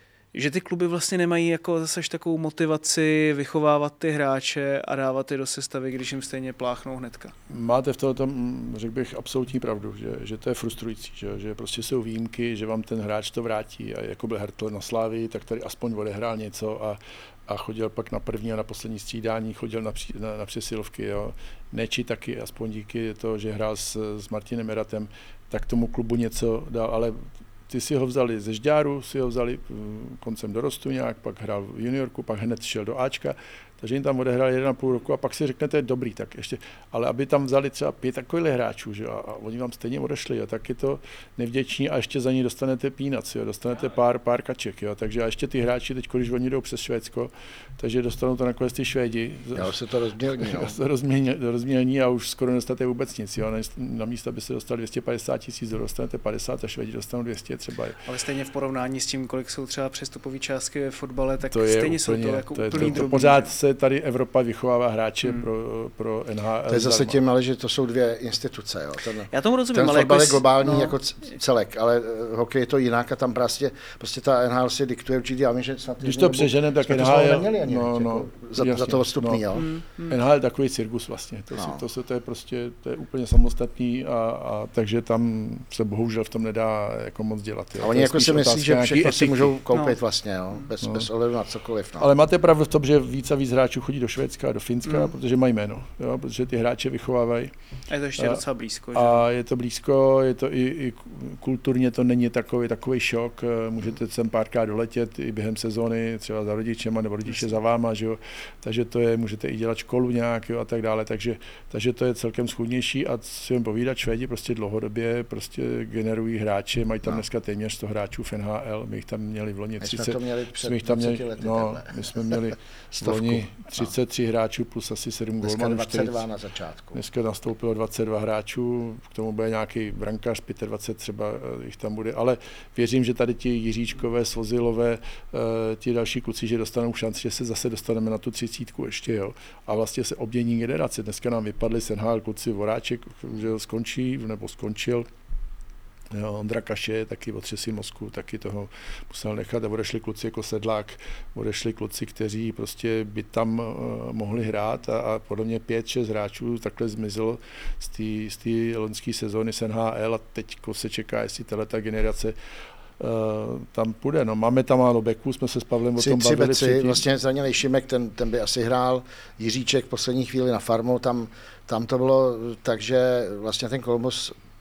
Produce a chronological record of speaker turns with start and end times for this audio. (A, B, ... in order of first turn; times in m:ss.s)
0:00.3-0:07.3 A
0:07.5-0:49.7 B
0:49.6-0:50.7 C
0:50.4-0:58.0 B
0:58.0-1:03.5 A
1:01.5-1:07.2 B
1:02.7-1:03.0 C
1:06.7-1:19.6 C
1:09.3-1:11.0 A
1:16.0-1:19.4 B
1:19.5-1:20.2 A
1:20.1-1:29.6 B
1:21.6-1:21.8 C
1:27.8-1:32.1 C
1:29.7-1:30.0 A
1:30.8-1:31.1 B
1:32.0-1:37.5 B
1:34.9-1:35.1 A
1:37.9-1:39.2 A
1:38.9-2:06.3 B
1:59.8-2:03.9 C
2:05.4-2:07.0 C
2:06.9-2:25.1 B
2:26.1-2:42.4 B
2:43.0-2:47.0 B
2:46.0-2:54.4 C